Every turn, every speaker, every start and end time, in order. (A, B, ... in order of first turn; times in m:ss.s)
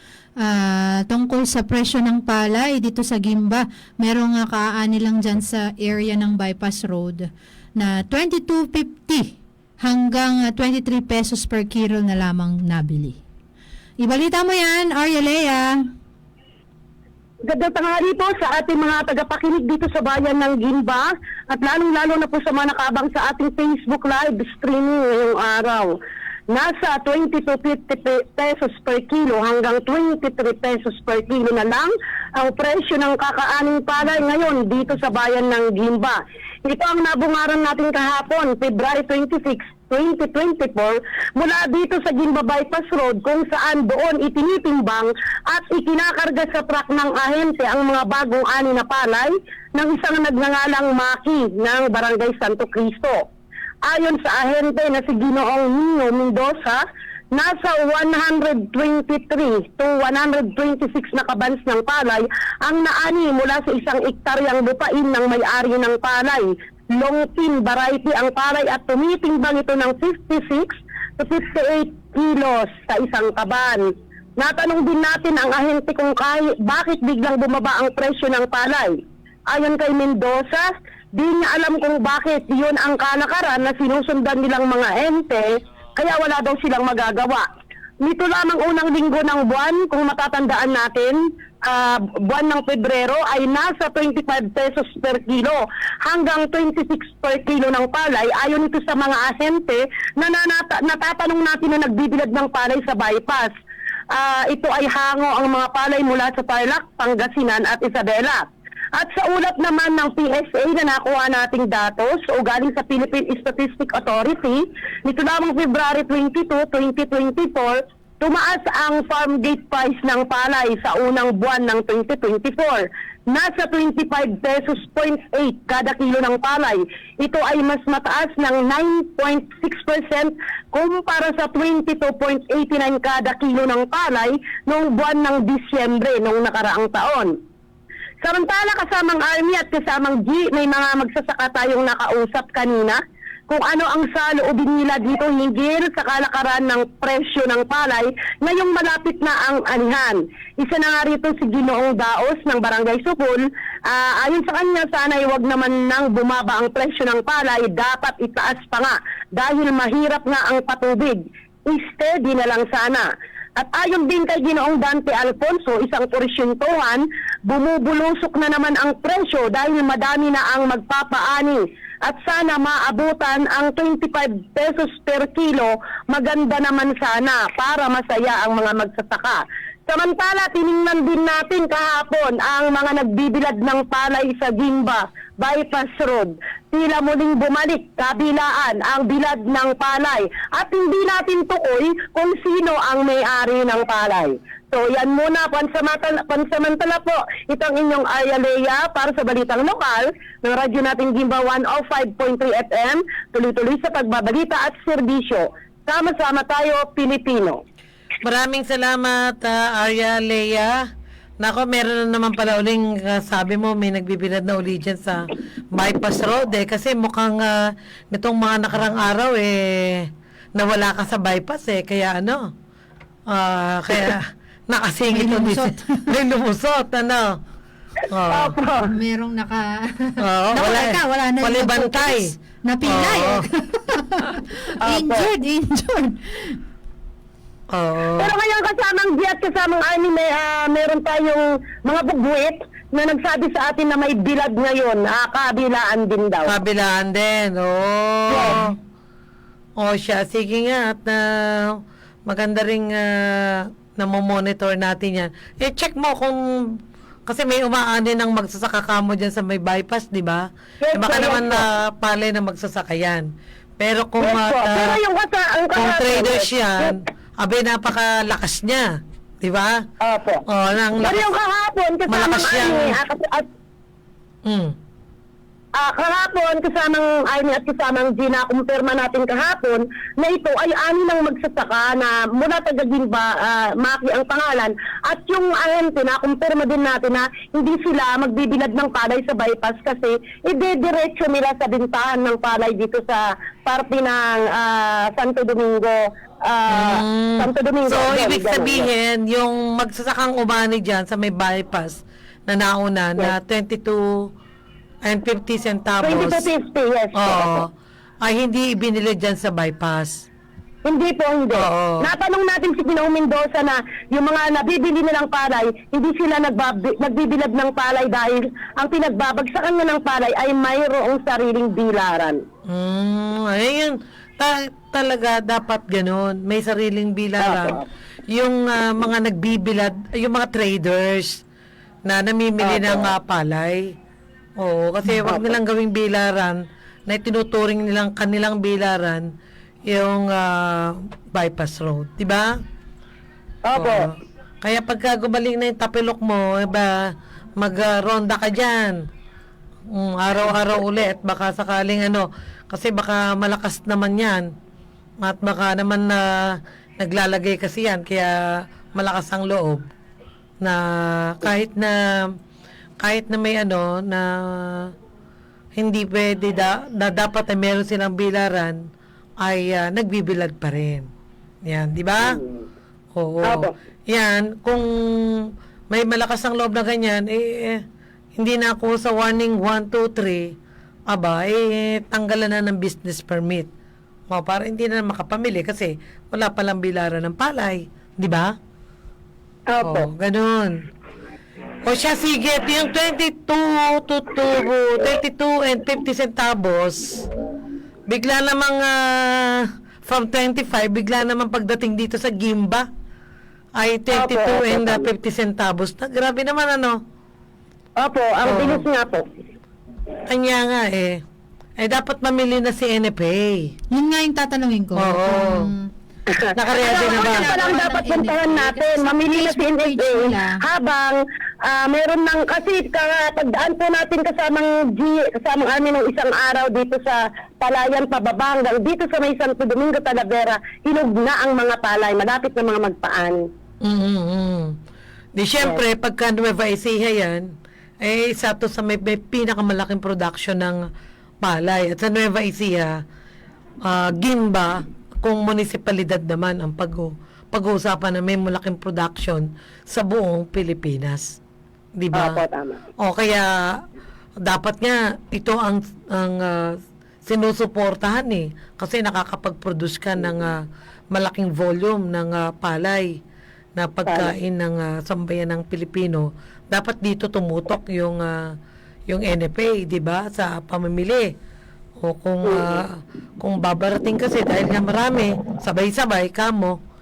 0:00.4-0:13.2 A
0:14.0-0:15.8 A
0:17.4-0:25.9 B
0:26.5-0:53.2 B
0:53.9-1:19.0 B
1:19.5-1:27.4 B
1:28.0-1:43.5 B
1:44.1-2:17.3 B
2:18.2-3:27.6 B
3:28.2-3:30.8 C
3:31.4-3:42.5 C
3:43.3-3:47.4 C
3:45.1-3:46.1 A
3:48.1-3:48.5 C
3:48.3-3:48.9 B
3:48.8-3:56.6 A
3:50.2-3:52.3 C
3:52.8-3:53.4 C
3:54.8-3:55.3 B
3:57.7-3:58.3 C
3:58.2-4:06.6 B
4:06.5-4:08.8 C
4:08.3-4:08.7 B
4:09.8-4:16.4 C
4:17.2-4:23.3 C
4:20.8-4:21.6 B
4:23.8-4:25.0 C
4:24.2-4:27.0 B
4:25.7-4:28.9 C
4:29.4-4:29.8 C
4:30.0-4:30.4 B
4:30.5-4:31.3 C
4:31.0-4:33.4 B
4:32.1-4:33.0 C
4:34.4-4:34.7 C
4:35.8-4:58.9 B
4:56.7-5:04.3 C
5:05.0-5:06.4 C
5:06.0-5:07.6 B
5:07.2-5:07.7 C
5:08.2-5:10.2 C
5:10.8-5:22.4 B
5:11.5-5:12.1 C
5:22.7-5:27.8 C
5:27.4-5:27.8 B
5:28.3-5:31.4 C
5:32.0-5:33.8 C
5:32.6-5:33.1 B
5:34.6-5:39.2 C
5:35.2-5:35.5 B
5:39.9-5:42.5 C
5:43.6-5:44.1 B
5:43.7-5:46.9 C
5:47.6-5:48.9 C
5:49.9-5:54.4 C
5:55.2-5:56.2 C
5:57.0-5:58.4 C
5:58.9-5:59.8 C
6:00.6-6:02.0 C
6:03.0-6:04.9 C
6:05.8-6:08.8 C
6:09.4-6:11.0 C
6:11.7-6:12.4 C
6:12.2-6:12.6 B
6:13.1-6:14.8 C
6:13.4-6:13.7 B
6:15.9-6:17.8 C
6:18.4-6:20.5 C
6:21.1-6:23.7 C
6:24.3-6:28.5 C
6:29.7-6:30.1 B
6:29.8-6:30.7 C
6:31.8-6:37.2 C
6:38.1-6:42.8 C
6:43.8-6:47.0 C
6:44.1-6:45.1 B
6:48.0-6:49.2 B
6:48.4-6:48.8 C
6:50.3-6:51.2 C
6:51.8-6:53.6 C
6:53.9-6:55.9 A
6:54.9-6:55.7 C
6:56.3-7:13.4 B
6:56.5-6:57.6 C
6:56.8-7:00.6 A
7:13.8-7:14.7 C
7:15.4-7:17.5 C
7:18.0-7:20.8 C
7:21.4-7:23.0 C
7:23.8-7:31.2 C
7:32.0-7:32.4 C
7:32.1-7:32.8 B
7:33.0-7:33.8 C
7:34.4-7:36.7 C
7:37.2-7:40.6 C
7:41.1-7:43.1 C
7:43.8-7:48.4 C
7:44.0-7:44.3 B
7:49.1-7:51.3 C
7:52.0-7:56.8 C
7:52.4-7:52.8 B